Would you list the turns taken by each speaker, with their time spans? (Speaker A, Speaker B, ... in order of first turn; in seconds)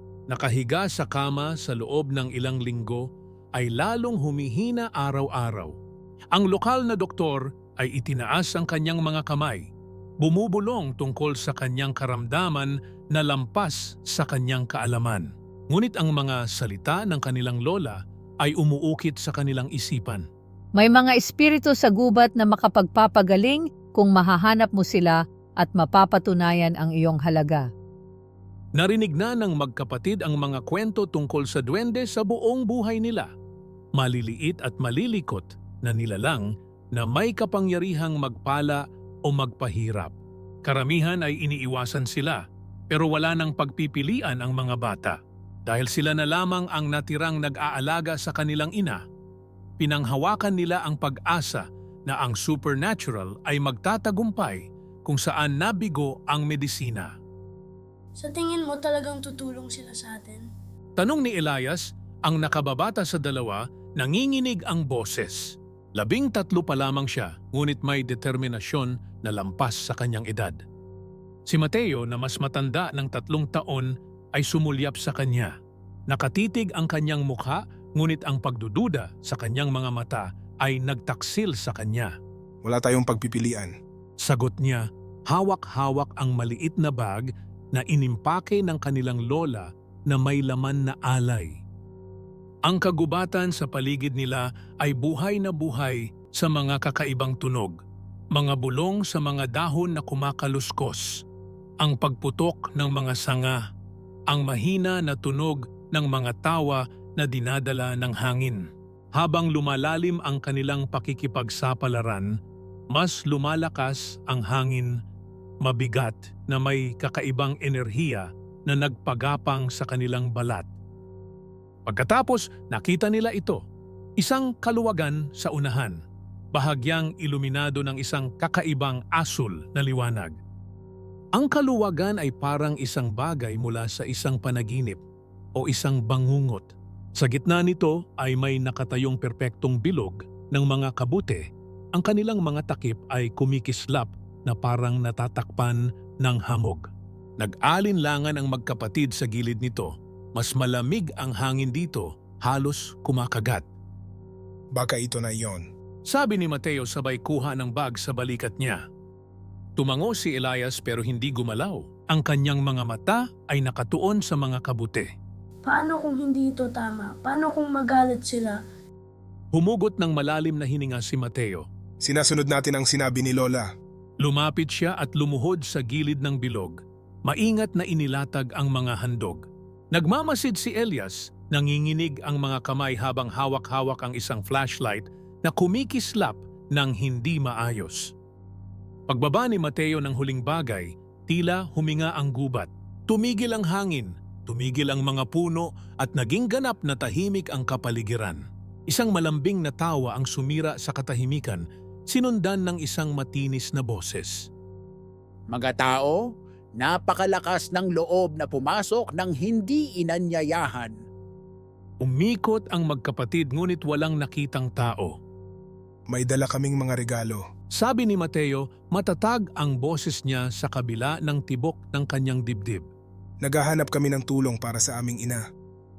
Speaker A: 0.3-5.8, 6.3-9.7, 10.2-20.3, 28.8-33.3, 34.0-49.0, 49.8-57.1, 61.0-70.6, 71.5-75.5, 76.1-82.1, 84.2-91.6, 92.7-97.8, 98.3-101.2, 101.8-103.6, 104.3-112.3, 112.9-115.0, 115.6-120.7, 121.8-123.6, 124.2-126.0, 126.5-130.3, 131.3-135.0, 135.6-146.9, 147.4-153.7, 156.1-158.8, 159.8-165.1, 169.5-171.7, 174.2-188.1, 189.1-204.5, 212.0-215.2, 217.7-222.8
Speaker B: 20.8-27.6
Speaker C: 58.2-60.4, 165.7-168.6
Speaker D: 82.6-83.7, 154.7-155.7, 172.0-173.7, 216.1-217.4, 223.4-225.4
Speaker E: 205.5-206.2, 206.8-210.9